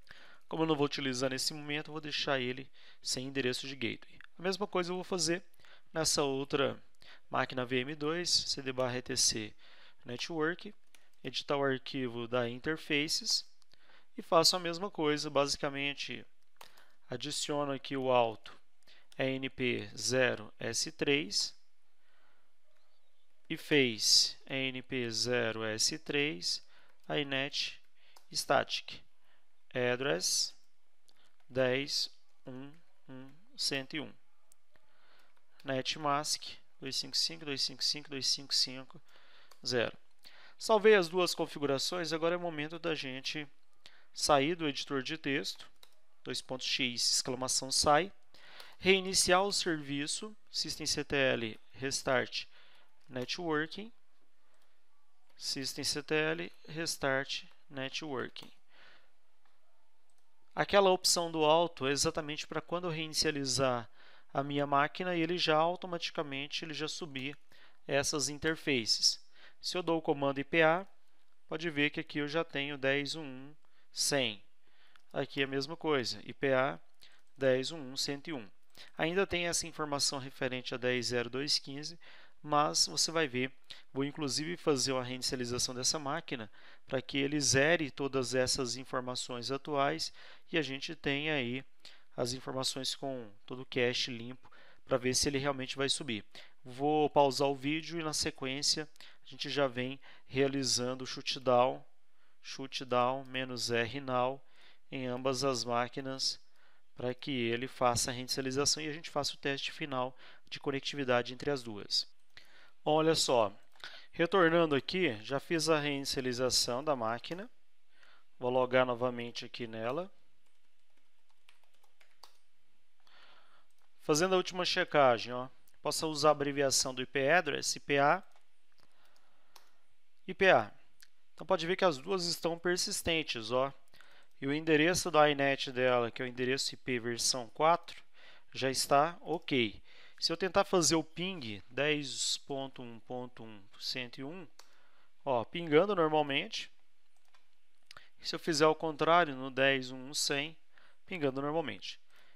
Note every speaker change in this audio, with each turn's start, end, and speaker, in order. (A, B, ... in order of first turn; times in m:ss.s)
0:00.5-0:13.5 A
0:14.2-0:16.3 A
0:17.1-0:18.6 A
0:19.2-0:21.6 A
0:23.5-0:29.0 A
0:29.7-0:30.6 A
0:31.5-0:34.2 A
0:35.6-0:39.0 A
0:39.6-0:40.0 A
0:40.6-0:43.5 A
0:44.1-0:45.7 A
0:46.2-0:48.1 A
0:48.8-0:52.5 A
0:53.1-0:53.9 A
0:55.4-0:58.6 A
1:00.6-1:10.9 A
1:11.5-1:14.4 A
1:15.1-1:16.8 A
1:17.4-1:41.9 A
1:42.4-1:46.4 A
1:47.0-1:52.1 A
1:52.8-1:53.6 A
1:54.1-1:57.5 A
1:58.4-2:00.1 A
2:04.0-2:08.2 A
2:10.3-2:10.8 A
2:11.4-2:13.8 A
2:14.4-2:24.5 A
2:25.2-2:26.7 A
2:28.2-2:32.0 A